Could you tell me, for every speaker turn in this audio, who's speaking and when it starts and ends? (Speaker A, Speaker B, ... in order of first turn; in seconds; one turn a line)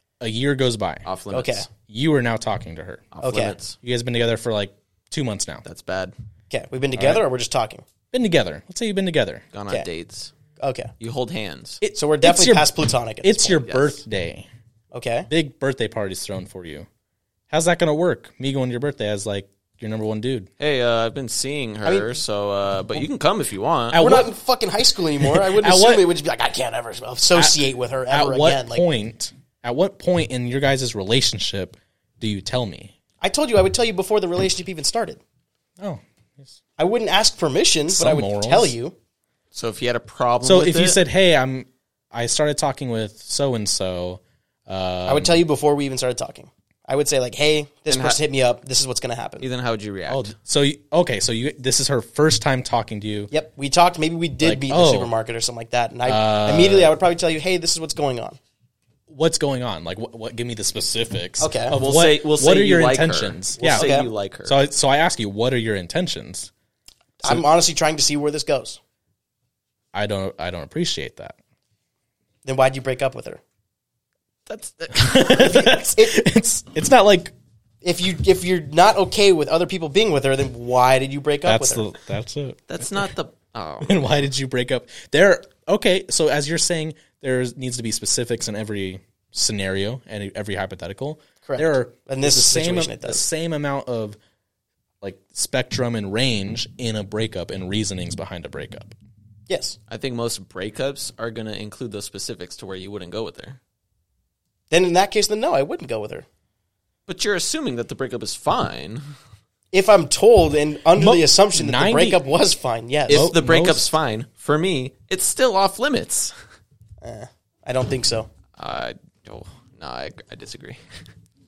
Speaker A: 0.2-1.0
Speaker B: 1.0-1.6
Speaker C: 1.3-1.7
Speaker A: 1.9-3.1
Speaker B: 3.1-3.8
Speaker C: 3.2-3.5
Speaker A: 3.8-5.6
Speaker B: 5.6-6.1
Speaker C: 6.5-7.8
Speaker A: 7.0-7.2
Speaker A: 8.1-9.4
Speaker B: 9.5-10.3
Speaker C: 10.6-10.9
Speaker B: 11.0-11.8
Speaker A: 11.8-12.7
Speaker C: 11.9-13.6
Speaker A: 13.2-14.5
Speaker B: 13.6-14.0
Speaker C: 14.9-15.3
Speaker A: 15.3-16.9
Speaker A: 17.5-20.5
Speaker B: 20.6-24.0
Speaker C: 21.8-22.1
Speaker A: 23.9-24.3
Speaker C: 23.9-28.8
Speaker A: 25.2-26.1
Speaker A: 27.3-32.9
Speaker C: 33.2-35.2
Speaker A: 35.8-36.5
Speaker C: 36.8-38.9
Speaker A: 37.9-38.7
Speaker B: 39.5-41.0
Speaker A: 40.4-45.4
Speaker C: 45.0-49.5
Speaker B: 47.9-48.2
Speaker B: 49.4-50.3
Speaker A: 50.1-53.3
Speaker C: 53.3-58.4
Speaker A: 54.4-55.1
Speaker A: 56.0-56.9
Speaker A: 59.1-63.9
Speaker C: 61.4-61.8
Speaker B: 61.7-64.6
Speaker C: 63.6-64.1
Speaker A: 64.4-66.5
Speaker C: 67.2-68.8
Speaker A: 69.9-71.3
Speaker C: 72.4-73.4
Speaker B: 74.5-75.9
Speaker A: 74.9-77.3
Speaker C: 75.6-76.2
Speaker C: 77.8-81.8
Speaker A: 81.5-83.1
Speaker B: 82.7-84.1
Speaker A: 83.8-94.2
Speaker C: 91.4-93.2
Speaker A: 95.0-98.9
Speaker C: 99.5-99.8
Speaker B: 99.9-103.6
Speaker C: 104.7-106.2
Speaker B: 107.1-109.0
Speaker C: 109.7-113.3
Speaker A: 111.0-112.2
Speaker B: 113.1-116.3
Speaker A: 113.1-113.9
Speaker C: 117.0-118.3
Speaker B: 118.6-120.8